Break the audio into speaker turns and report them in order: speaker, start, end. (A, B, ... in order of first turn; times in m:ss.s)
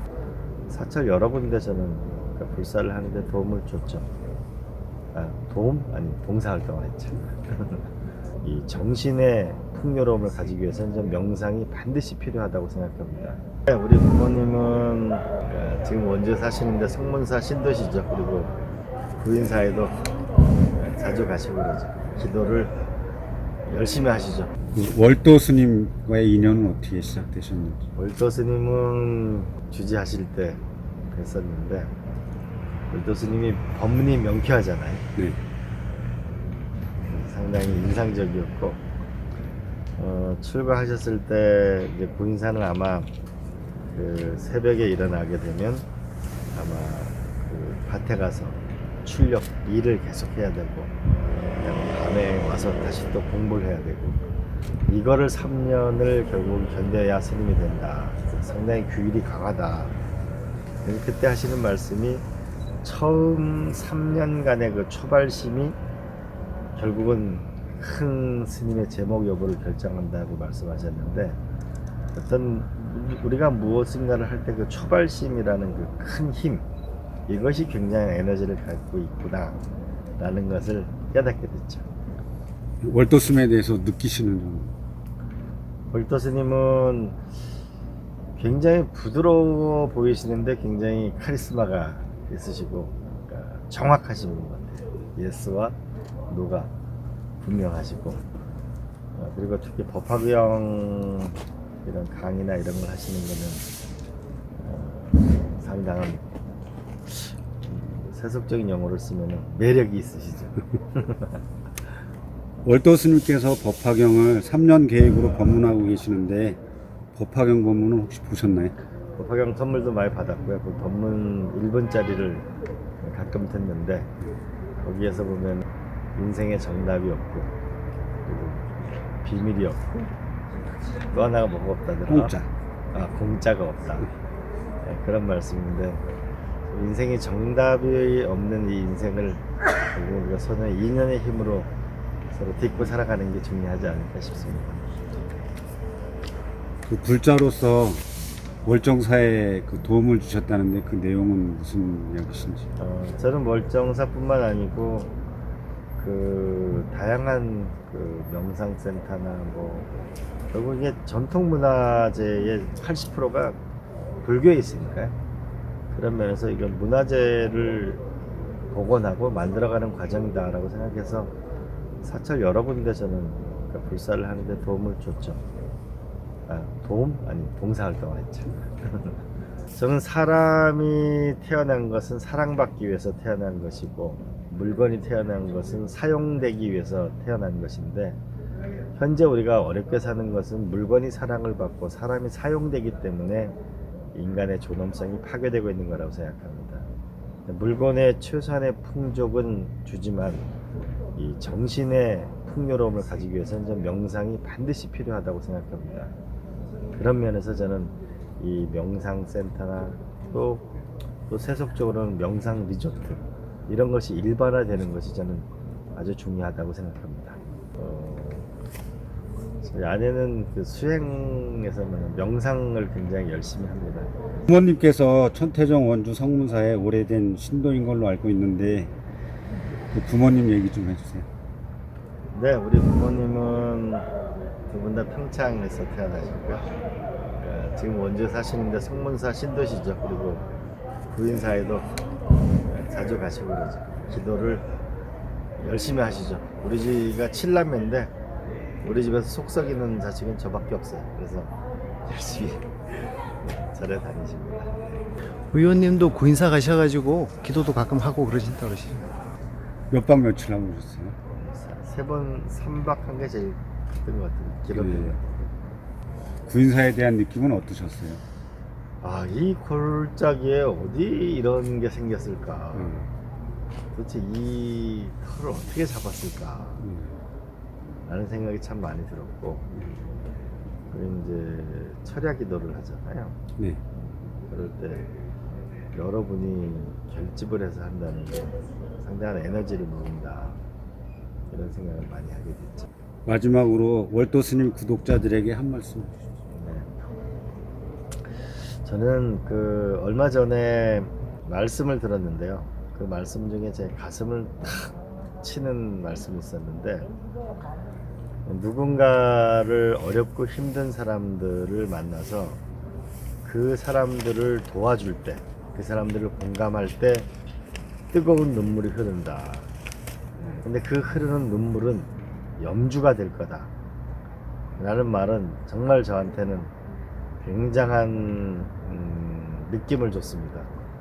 0:00.7-0:04.1 A
0:05.1-0:07.9 A
0:08.4-0:18.5 A
0:19.2-0:20.0 A
0:20.8-0:22.7 A
0:23.7-0:24.5 A
0:24.7-0:27.8 B
0:28.0-0:32.0 A
0:32.9-0:35.1 A
0:35.2-0:35.4 B
0:37.0-0:38.8 A
0:40.0-0:43.1 A
0:43.9-0:45.9 A
0:46.5-0:50.9 A
0:51.6-0:54.2 A
0:54.9-1:00.0 A
1:00.8-1:02.2 A
1:02.8-1:05.8 A
1:06.8-1:11.4 A
1:12.1-1:16.7 A
1:17.3-1:19.6 A
1:20.2-1:21.9 A
1:22.8-1:24.7 B
1:25.9-1:27.2 A
1:28.4-1:35.8 A
1:36.3-1:36.7 A
1:37.4-1:38.3 A
1:39.1-1:43.6 A
1:44.6-1:46.2 A
1:47.1-1:51.3 A
1:52.6-1:56.6 B
1:57.1-1:58.8 B
1:59.2-2:02.4 A
2:03.0-2:04.1 A
2:04.8-2:07.6 A
2:08.2-2:09.9 A
2:11.1-2:12.3 A
2:12.1-2:12.5 B
2:12.9-2:14.1 A
2:14.8-2:16.0 A
2:16.7-2:21.7 A
2:22.3-2:25.0 A
2:26.9-2:28.0 B
2:28.6-2:32.7 B
2:32.8-2:35.1 A
2:36.0-2:39.9 A
2:40.5-2:43.6 A
2:44.2-2:45.1 A
2:45.9-2:48.0 A
2:48.7-2:51.3 A
2:52.0-2:55.4 A
2:56.5-2:59.2 A
2:59.7-3:08.2 A
3:09.0-3:13.6 A
3:14.1-3:16.8 A
3:17.4-3:20.5 A
3:21.1-3:26.1 A
3:27.0-3:30.6 A
3:31.3-3:38.5 A
3:39.6-3:44.2 A
3:44.5-3:48.9 B
3:49.9-3:51.2 B
3:52.3-3:54.1 A
3:54.7-3:56.7 A
3:57.4-4:00.4 A
4:01.1-4:01.9 A
4:02.6-4:04.7 A
4:05.6-4:08.1 A
4:08.8-4:11.5 A
4:12.0-4:14.9 A
4:15.5-4:19.0 C
4:19.9-4:21.2 B
4:21.3-4:25.5 A
4:24.7-4:25.2 B
4:26.5-4:28.2 B
4:29.0-4:33.1 A
4:33.9-4:36.9 A
4:38.1-4:39.7 A
4:40.9-4:43.4 A
4:44.5-4:45.1 A
4:45.9-4:50.6 A
4:51.5-4:52.9 A
4:53.2-4:56.1 B
4:56.5-4:56.9 A
4:58.8-5:07.1 A
5:08.5-5:12.6 A
5:13.4-5:17.3 A
5:18.1-5:19.7 A
5:20.6-5:23.7 A
5:24.8-5:26.7 A
5:27.4-5:30.7 A